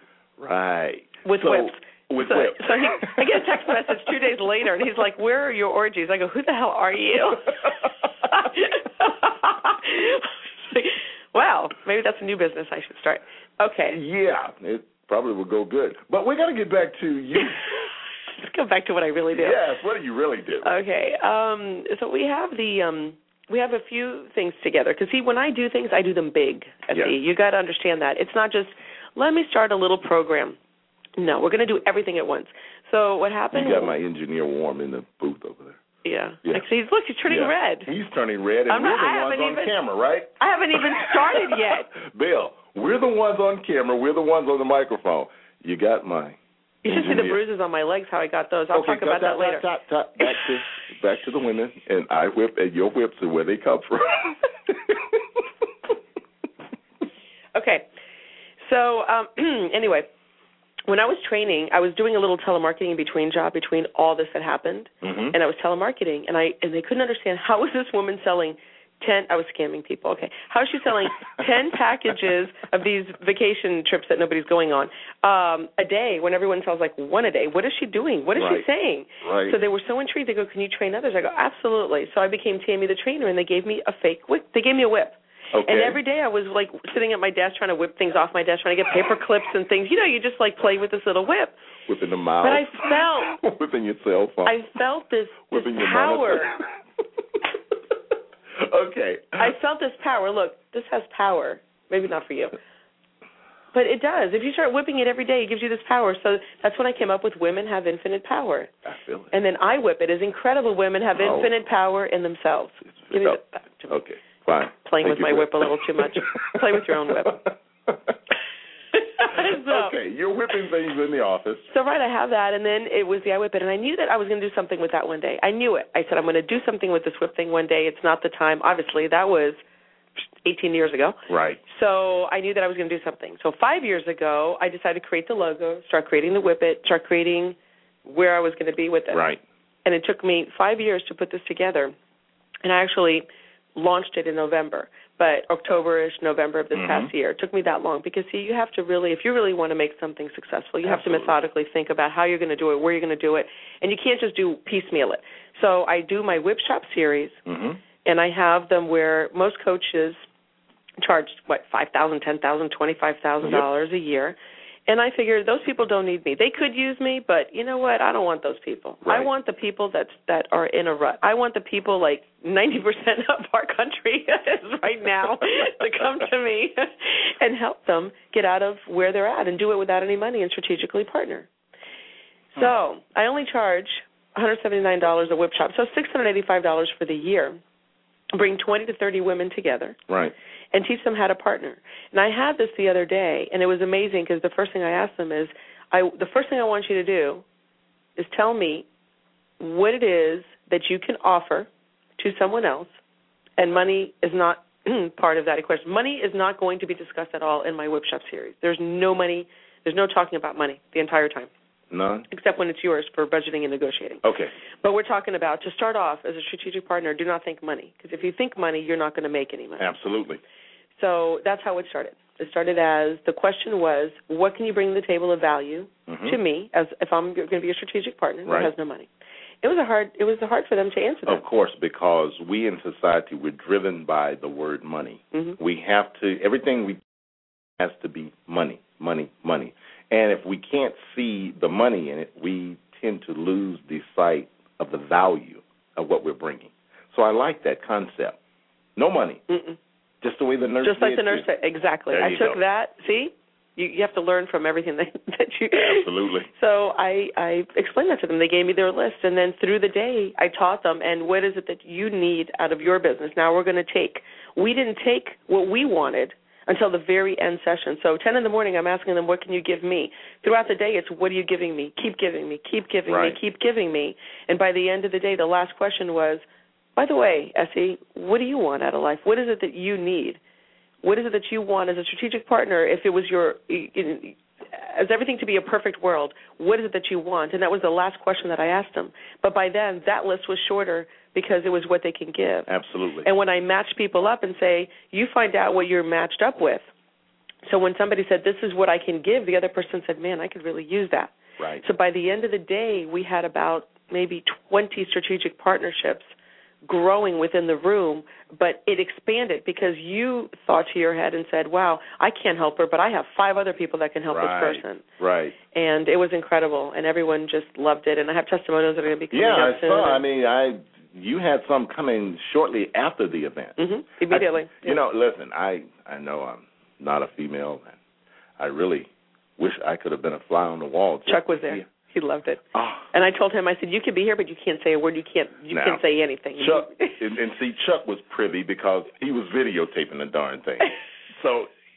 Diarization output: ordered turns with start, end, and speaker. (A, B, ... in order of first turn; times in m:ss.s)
0:00.4-0:03.4 A
0:01.2-0:07.7 B
0:08.2-0:14.0 B
0:13.9-0:17.6 A
0:18.4-0:19.6 B
0:19.3-0:20.7 A
0:20.6-0:30.6 B
0:31.2-0:33.9 B
0:33.5-0:35.8 A
0:36.0-0:37.9 B
0:37.3-0:47.4 A
0:38.7-0:39.7 B
0:40.4-0:41.9 B
0:46.8-0:49.6 B
0:48.7-0:55.4 A
0:57.5-0:57.8 B
0:58.6-1:00.1 B
1:00.9-1:31.6 B
1:05.0-1:05.3 A
1:18.4-1:18.6 A
1:19.2-1:19.6 A
1:25.5-1:26.0 A
1:31.9-1:34.6 A
1:32.4-1:33.4 B
1:34.4-1:36.6 B
1:35.5-1:36.6 A
1:38.6-1:39.5 A
1:39.4-1:42.6 B
1:43.7-1:48.7 B
1:48.8-1:49.3 A
1:49.3-1:53.9 B
1:51.2-1:51.5 A
1:53.0-1:56.5 A
1:54.8-1:57.4 B
1:57.2-1:58.1 A
1:59.0-1:59.9 B
1:59.4-2:01.7 A
2:01.7-2:09.6 B
2:10.4-2:19.2 B
2:11.3-2:11.6 A
2:19.1-2:19.4 A
2:19.8-2:21.9 B
2:22.6-2:37.4 B
2:26.7-2:27.1 A
2:30.8-2:31.4 A
2:37.4-2:37.8 A
2:38.0-2:40.2 B
2:41.0-3:01.5 B
2:49.0-2:49.3 A
3:02.5-3:07.6 B
3:08.3-3:10.0 B
3:10.1-3:10.3 A
3:10.7-3:17.4 B
3:18.2-3:18.8 B
3:19.6-3:23.0 B
3:23.6-3:31.5 B
3:31.9-3:32.2 A
3:32.3-3:34.2 B
3:34.2-3:34.5 A
3:34.8-3:39.8 B
3:39.8-3:40.4 A
3:41.0-3:49.1 B
3:46.1-3:46.4 A
3:48.4-3:48.7 A
3:49.6-3:51.4 B
3:51.2-3:57.0 A
3:57.8-4:08.4 A
4:09.0-4:09.4 A
4:09.5-4:09.8 B
4:10.2-4:11.4 A
4:10.8-4:36.4 B
4:12.1-4:12.6 A
4:15.7-4:16.5 A
4:33.1-4:33.4 A
4:37.0-4:40.4 B
4:41.0-4:52.7 B
4:52.7-4:53.3 A
4:53.2-4:56.8 B
4:57.6-5:06.3 B
5:06.8-5:15.0 B
5:14.3-5:15.6 A
5:15.7-5:20.2 B
5:19.3-5:28.0 A
5:23.8-5:25.0 B
5:28.6-5:31.8 A
5:31.3-5:37.2 B
5:32.7-5:33.1 A
5:35.7-5:36.0 A
5:36.6-5:41.7 A